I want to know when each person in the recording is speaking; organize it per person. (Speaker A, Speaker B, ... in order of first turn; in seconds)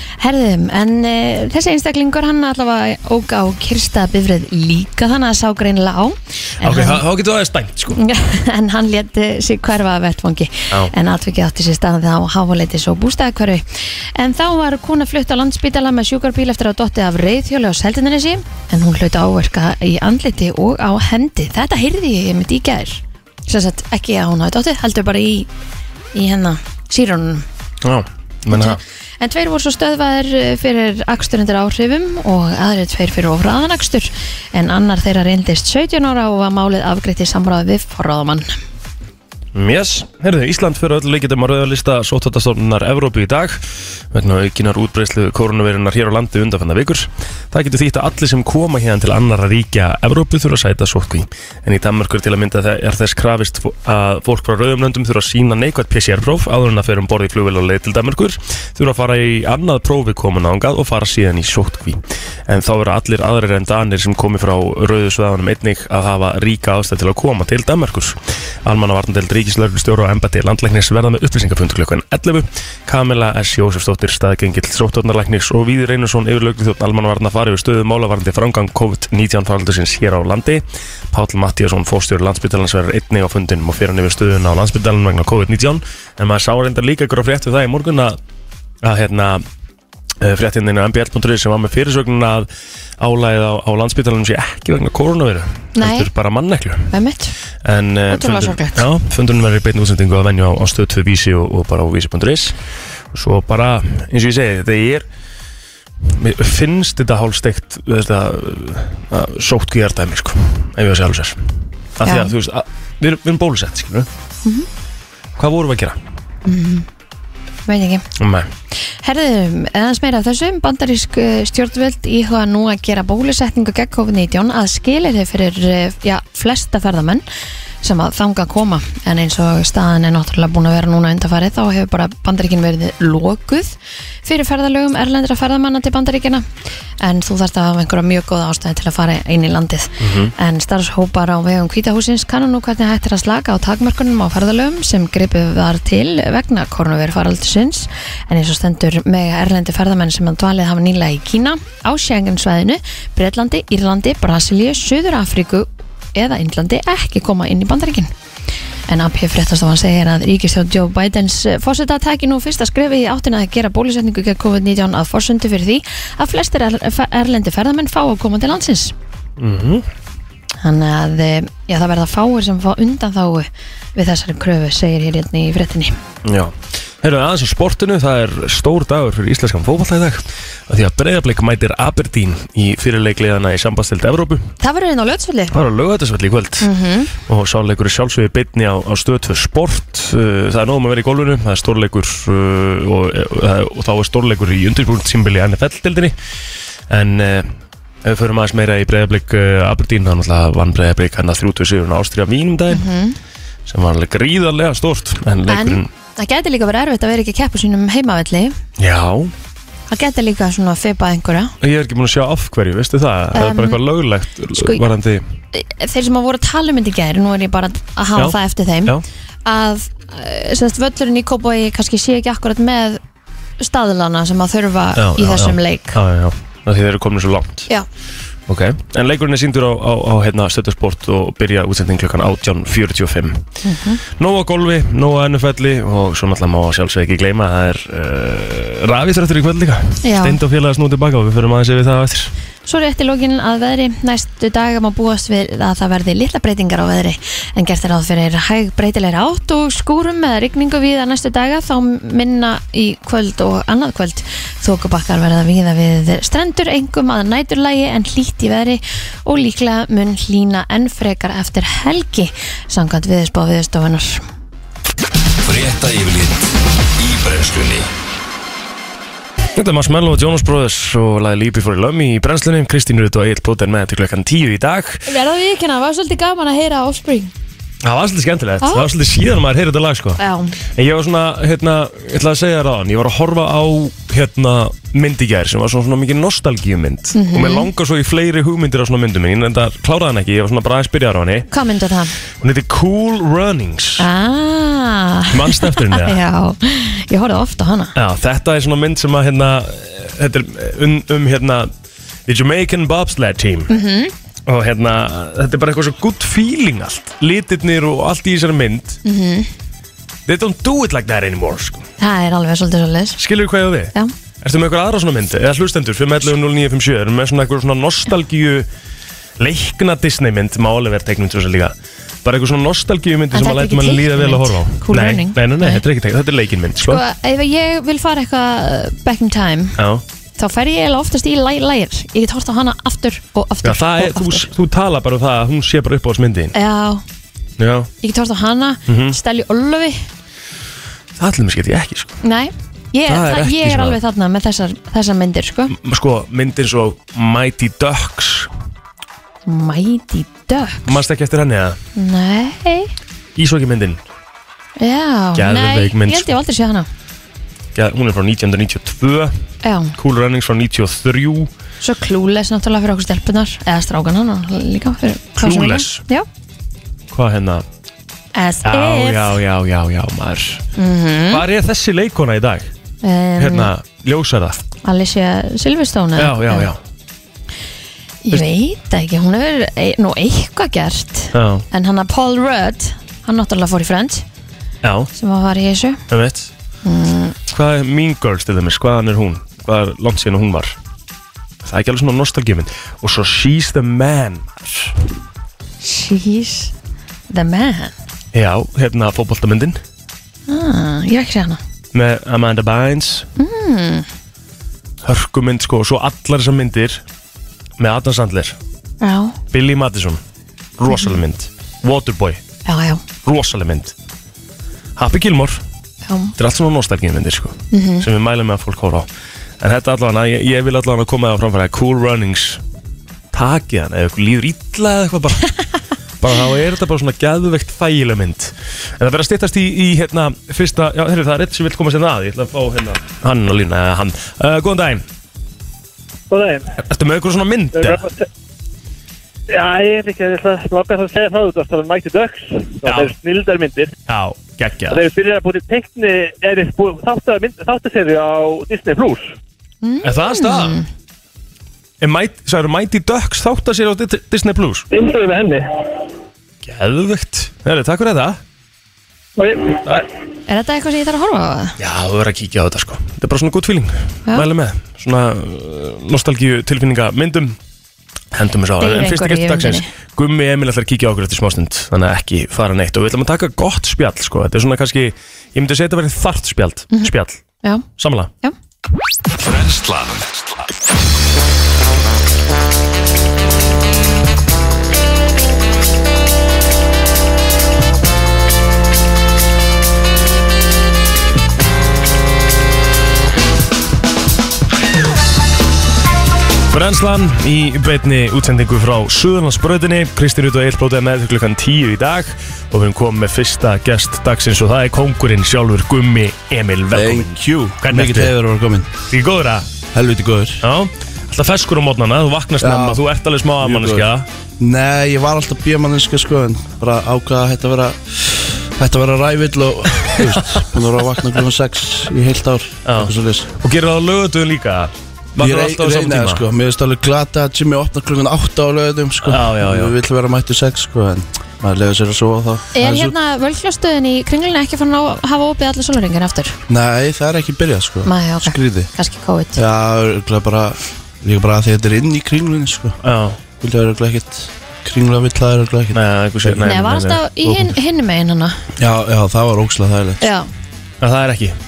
Speaker A: 0.2-7.0, 7.9-25.5, 26.1-27.4, 28.5-38.5, 95.7-96.1, 96.9-97.3, 98.1-98.9, 112.0-112.3, 116.4-116.9, 117.7-118.0, 118.8-127.2, 127.8-136.4, 137.0-158.1, 158.9-168.9, 170.6-175.9, 184.6-185.5, 186.6-187.1, 202.7-203.2, 205.5-208.5, 209.9-211.5, 213.3-213.8, 214.5-214.8, 215.5-223.0, 223.6-226.0, 233.6-234.0, 240.0-240.4, 242.7-264.2, 275.1-277.3, 278.6-278.9, 280.2-280.6, 287.1-287.7, 291.5-292.1, 294.0-297.9, 303.7-304.1, 309.0-309.5, 312.0-313.2, 323.3-325.8, 326.8-329.8, 330.4-334.5, 336.5-337.0, 338.0-340.0, 342.2-345.7, 349.4-350.9, 351.9-352.9, 354.8-356.9, 359.6-359.9, 361.8-366.2, 368.3-369.4, 370.8-371.4, 373.0-373.7, 374.8-376.7, 378.2-384.2, 385.1-386.0, 386.8-387.4, 395.8-396.7, 397.3-397.9, 400.5-401.6, 403.4-404.1, 409.0-409.4, 410.9-411.2, 412.6-413.0, 416.1-416.3, 417.7-418.1, 449.8-450.9, 460.5-461.8, 468.8-469.9, 476.9-477.9, 532.7-536.6, 538.0-539.6, 546.6-548.6, 550.2-550.5
Speaker B: 6.6-8.0, 27.8-28.8, 39.5-88.2, 88.8-89.4, 90.2-92.5, 93.0-96.9, 97.6-102.5, 103.1-105.1, 106.0-111.4, 112.0-114.1, 115.3-116.0, 118.2-118.5, 140.0-140.3, 169.4-169.8, 176.2-184.5, 185.5-186.7, 187.3-196.1, 196.9-202.9, 203.7-205.9, 208.8-209.3, 211.6-215.2, 218.2-219.0, 224.9-227.7, 228.5-233.4, 234.0-242.3, 269.5-275.1, 277.8-291.5, 292.4-294.1, 295.3-296.2, 297.9-301.7, 302.2-303.7, 304.4-309.0, 310.2-311.9, 313.2-318.7, 319.4-327.0, 329.8-330.0, 333.6-336.5, 337.6-337.9, 338.9-339.2, 341.1-342.2, 343.1-344.0, 345.7-348.5, 350.8-351.8, 353.3-354.0, 355.3-356.3, 357.7-359.3, 359.9-361.5, 365.4-366.0, 367.1-367.6, 368.6-370.6, 371.3-372.7, 373.4-374.6, 376.1-376.8, 381.3-381.6, 384.8-385.1, 386.1-386.5, 387.5-390.8, 391.6-394.9, 398.3-399.8, 401.9-403.3, 405.0-407.0, 407.8-408.6, 409.5-410.2, 410.8-412.4, 413.2-413.9, 415.0-415.6, 416.4-419.1, 419.6-422.6, 423.3-425.5, 426.2-435.1, 436.8-438.1, 442.8-443.1, 444.1-445.1, 450.0-450.8, 452.0-454.9, 456.6-458.4, 461.8-467.6, 468.3-477.4, 478.0-478.3, 496.7-508.3, 509.1-509.7, 510.6-514.3, 520.2-520.6, 522.8-526.5, 529.2-530.0, 543.0-543.4, 545.9-547.7, 551.0-551.6
Speaker C: 265.4-266.4, 267.0-267.9, 479.4-480.5
Speaker D: 436.3-436.8, 437.7-438.2, 439.5-444.0, 444.9-449.3, 454.9-456.0, 459.4-460.1
Speaker E: 506.9-508.9, 509.9-510.6, 512.6-513.0, 513.6-514.1, 514.6-523.5, 525.4-533.1, 536.7-538.9, 539.5-543.0, 543.6-546.7, 548.8-550.3